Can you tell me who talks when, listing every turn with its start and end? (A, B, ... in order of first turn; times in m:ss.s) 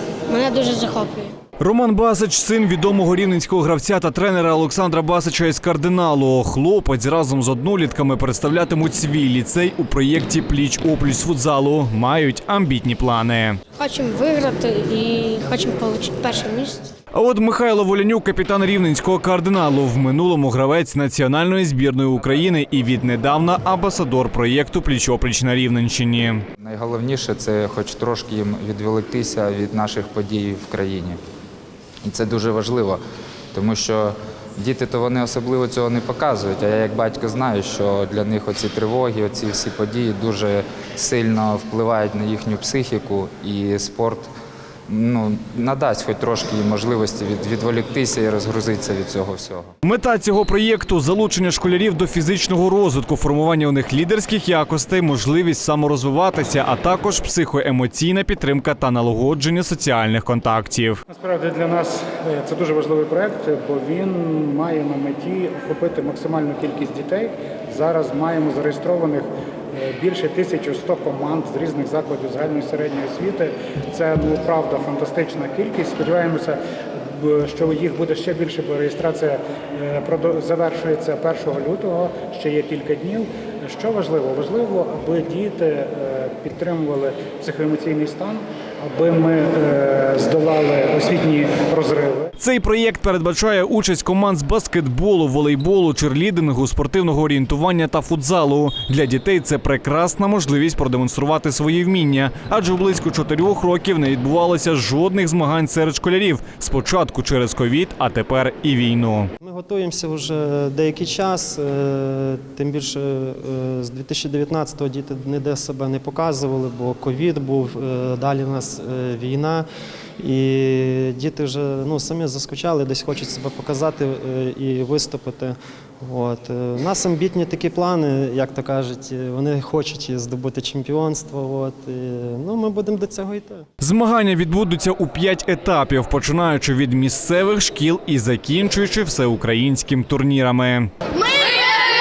0:00.3-0:01.3 A
0:01.6-0:13.6 B
0:13.8-0:16.8 A
0:17.1-0:26.4 B
0:26.6-0:31.2 C
0:32.0-0:33.0 C
0:33.5-0:44.3 C
0:44.9-0:49.7 C
0:49.8-1:01.0 B
1:01.1-1:16.6 D
1:17.1-1:32.3 D
1:32.4-1:49.3 B
1:49.4-1:59.6 E
2:00.2-2:13.7 E
2:13.8-2:20.9 B